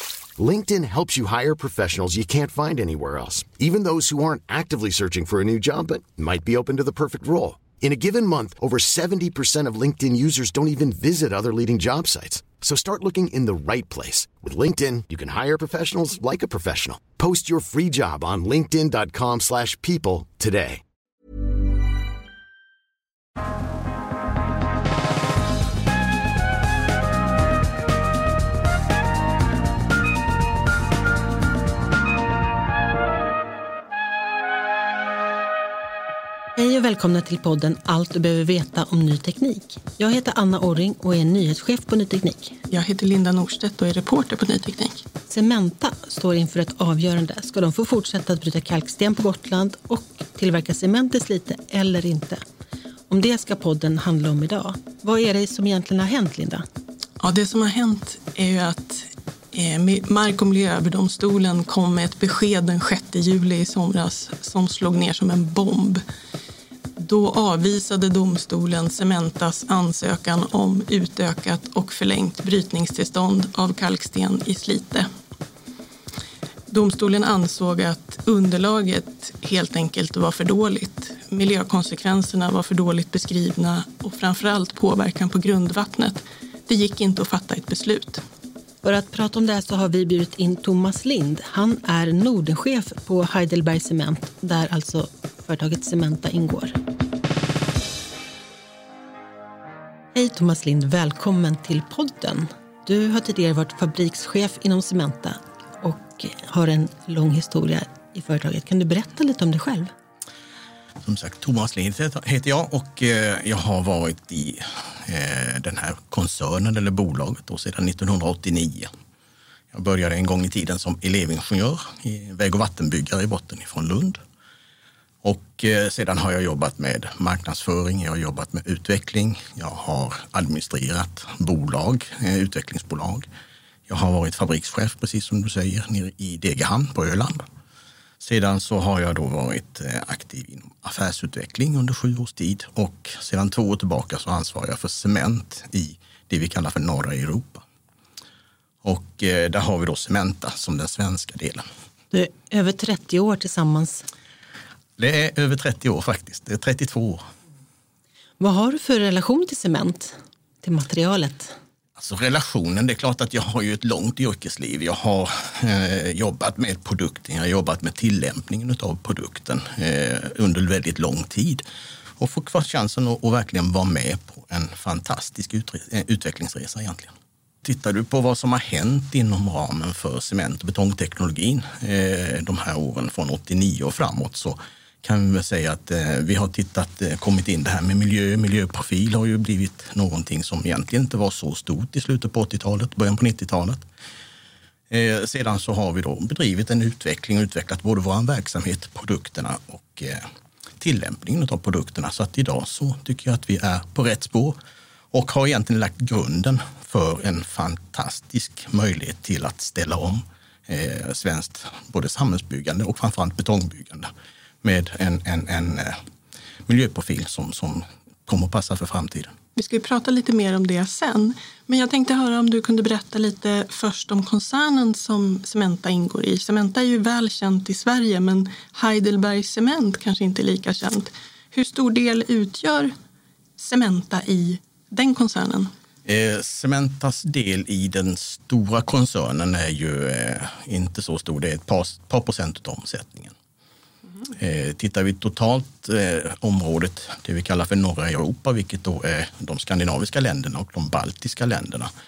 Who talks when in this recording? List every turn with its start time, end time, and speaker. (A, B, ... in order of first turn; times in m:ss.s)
0:00.4-0:20.8 A
0:36.6-0:42.6 B
0:42.7-0:45.0 C
0:45.3-0:52.4 B
0:53.1-0:56.6 B
0:57.2-1:06.0 C
1:07.0-1:15.1 C
1:16.7-1:28.2 C
1:28.8-1:36.8 B
1:40.1-1:49.9 B
1:51.0-1:58.9 D
1:59.7-2:04.2 D
2:05.2-2:13.3 D
2:13.9-2:17.4 D
2:18.2-2:27.6 D
2:28.8-2:31.7 D
2:32.1-2:34.1 B
2:35.0-2:37.2 D
2:38.4-2:41.5 B
2:42.0-2:51.6 D
2:52.2-3:13.8 D
3:14.9-3:20.2 D
3:20.8-3:24.6 D
3:25.1-3:34.1 D
3:34.6-3:36.0 D
3:36.7-3:39.4 D
3:39.6-3:53.0 C
3:53.6-3:55.7 C
3:56.0-4:03.3 D
4:04.3-4:11.9 D